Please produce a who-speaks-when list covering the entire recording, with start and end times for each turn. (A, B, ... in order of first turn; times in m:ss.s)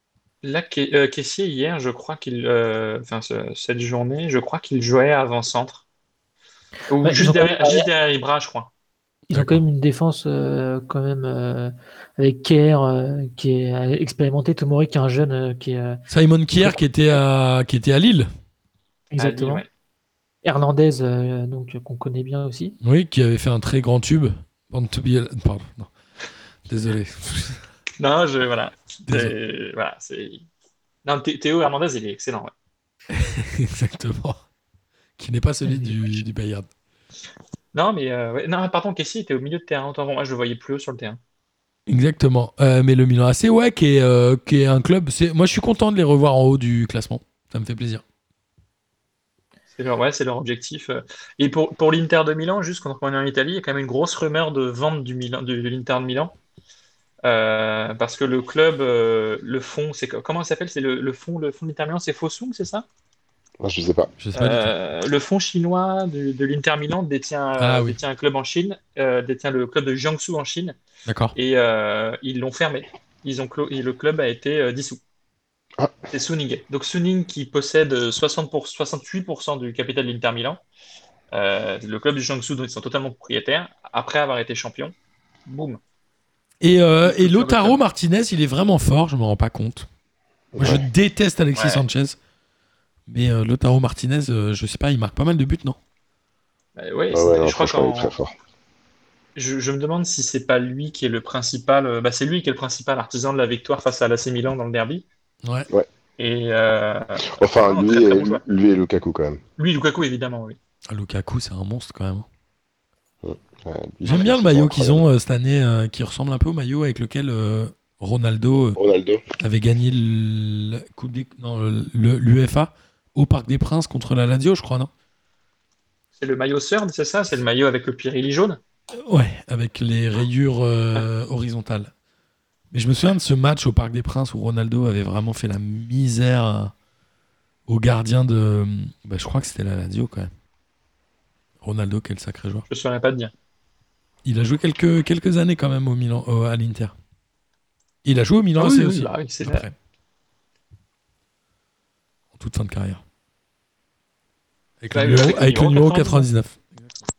0:00.4-0:05.8 A
0:06.9-0:08.7 A
0:07.0-0:07.9 B
0:09.3-0:16.0 B
0:09.3-0:09.6 C
0:16.1-0:18.3 C
0:19.1-0:19.6 B
0:19.2-0:19.7 A
0:20.4-0:22.8 B
0:22.8-0:25.9 C
0:26.7-0:27.6 C
0:28.0-0:30.5 A
0:29.1-0:29.3 C
0:31.0-0:32.5 A
0:33.1-0:34.4 C
0:35.2-0:36.7 C
0:37.7-0:41.2 A
0:41.9-0:48.0 C
0:49.8-0:56.4 A
0:57.2-1:02.9 A
1:03.6-1:04.1 D
1:04.2-1:04.7 C
1:04.4-1:10.8 A
1:07.6-1:08.0 C
1:11.1-1:11.4 C
1:11.3-1:15.0 A
1:16.1-1:20.6 A
1:21.3-1:24.9 A
1:25.5-1:25.8 A
1:26.6-1:29.9 C
1:27.0-1:27.8 A
1:30.5-1:30.9 D
1:30.6-1:32.2 C
1:31.6-1:31.8 A
1:33.1-1:35.8 C
1:36.8-1:38.1 A
1:37.1-1:38.3 D
1:39.4-1:45.0 A
1:46.2-1:48.4 A
1:47.2-1:49.4 D
1:49.6-1:50.6 A
1:50.9-1:52.3 C
1:53.2-1:55.0 D
1:54.0-1:58.8 C
1:58.8-1:59.2 D
1:59.4-2:04.9 C
2:06.2-2:08.6 A
2:09.1-2:11.9 C
2:12.7-2:16.7 C
2:17.7-2:20.3 C
2:21.6-2:22.7 C
2:22.7-2:23.3 A
2:24.2-2:27.0 C
2:28.0-2:29.8 C
2:28.6-2:29.7 A
2:32.4-2:33.0 C
2:34.8-2:37.0 C
2:34.9-2:36.3 A